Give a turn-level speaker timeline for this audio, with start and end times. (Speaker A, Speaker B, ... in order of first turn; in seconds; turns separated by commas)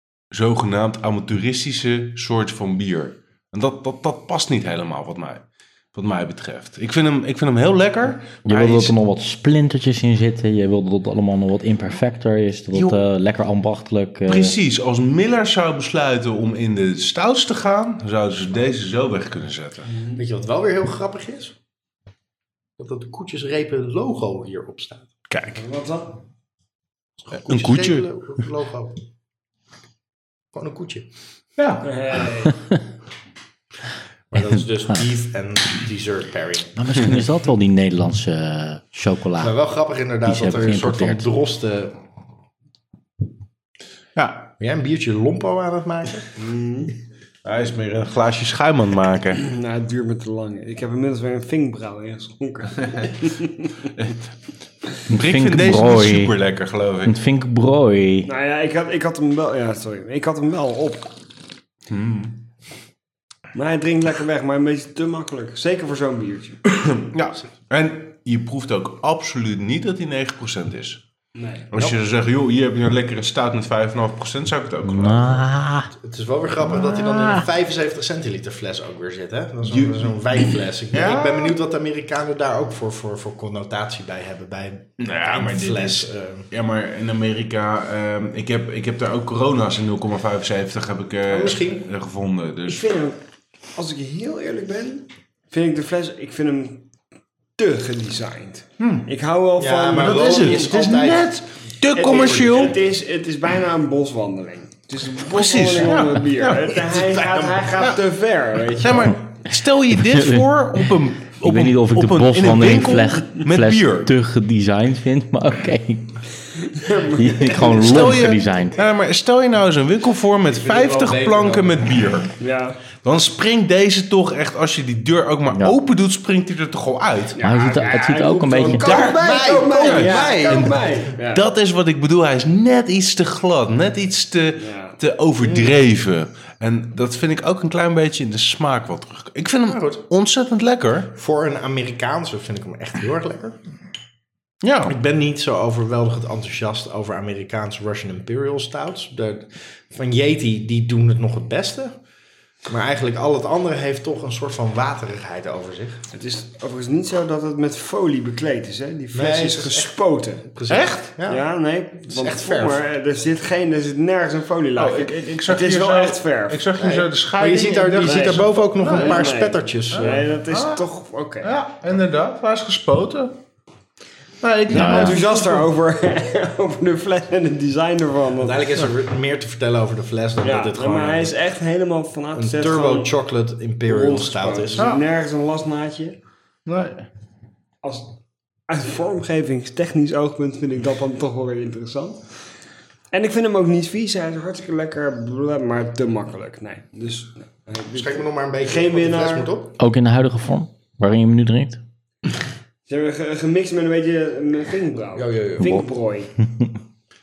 Speaker A: 0.3-9.0, Speaker B: 8.4-14.6, Speaker A: 12.7-13.0, Speaker A: 14.3-19.9, Speaker C: 19.9-20.2, Speaker D: 20.1-21.6, Speaker D: 22.8-25.1, Speaker A: 25.3-25.6, Speaker C: 25.5-26.2, Speaker D: 27.3-29.0, Speaker A: 27.3-28.1, Speaker D: 30.5-31.1, Speaker A: 31.6-31.9, Speaker C: 31.8-32.6, Speaker D: 34.3-36.9, Speaker B: 36.8-39.5, Speaker D: 39.4-41.9, Speaker B: 40.2-41.3, Speaker A: 44.2-44.5, Speaker D: 44.6-46.3, Speaker C: 46.4-46.9, Speaker A: 47.5-49.5, Speaker C: 49.4-53.7, Speaker B: 55.1-56.3, Speaker A: 55.1-57.2, Speaker B: 57.0-58.3, Speaker C: 58.2-61.1, Speaker A: 61.9-62.4, Speaker C: 63.5-66.6, Speaker A: 66.7-71.0, Speaker C: 71.3-71.7, Speaker A: 71.7-75.5, Speaker B: 74.8-75.9, Speaker D: 75.9-86.5, Speaker B: 76.8-77.4, Speaker A: 79.7-80.2, Speaker A: 80.9-81.5, Speaker A: 85.0-93.0, Speaker D: 91.3-91.9, Speaker C: 92.7-93.2, Speaker C: 93.8-96.9, Speaker C: 97.6-100.6, Speaker A: 98.8-99.1, Speaker D: 99.6-101.3, Speaker A: 100.0-102.8, Speaker C: 102.0-109.2, Speaker D: 102.0-102.7, Speaker A: 105.1-108.0, Speaker A: 108.7-114.1, Speaker B: 109.9-110.6, Speaker B: 111.4-116.2, Speaker C: 116.7-117.9, Speaker B: 117.1-118.8, Speaker A: 117.8-122.3, Speaker D: 120.5-122.2, Speaker C: 122.4-122.8, Speaker A: 123.0-127.4, Speaker B: 125.5-125.8, Speaker C: 127.3-131.4, Speaker B: 127.4-128.9, Speaker D: 128.7-130.8, Speaker A: 128.7-141.1, Speaker C: 134.6-135.0, Speaker D: 135.4-135.8, Speaker D: 139.7-140.0, Speaker D: 141.2-143.6, Speaker A: 144.6-144.9, Speaker D: 144.8-151.9, Speaker D: 152.7-156.1, Speaker C: 156.1-160.5, Speaker D: 159.1-161.4, Speaker A: 160.7-161.1, Speaker C: 161.2-167.0, Speaker D: 162.1-162.8, Speaker A: 164.8-169.3, Speaker D: 166.8-170.2, Speaker C: 168.0-171.5, Speaker A: 169.9-170.8, Speaker A: 171.4-173.3, Speaker A: 174.4-175.7, Speaker C: 174.7-178.9, Speaker B: 174.7-175.2, Speaker D: 178.4-181.3, Speaker C: 180.4-183.1, Speaker D: 182.3-184.9, Speaker C: 183.9-186.2, Speaker A: 184.8-185.0, Speaker A: 186.7-187.1, Speaker C: 187.8-192.3, Speaker C: 193.1-199.5, Speaker D: 197.9-199.8, Speaker B: 199.8-201.8, Speaker C: 202.9-206.3, Speaker D: 205.2-205.7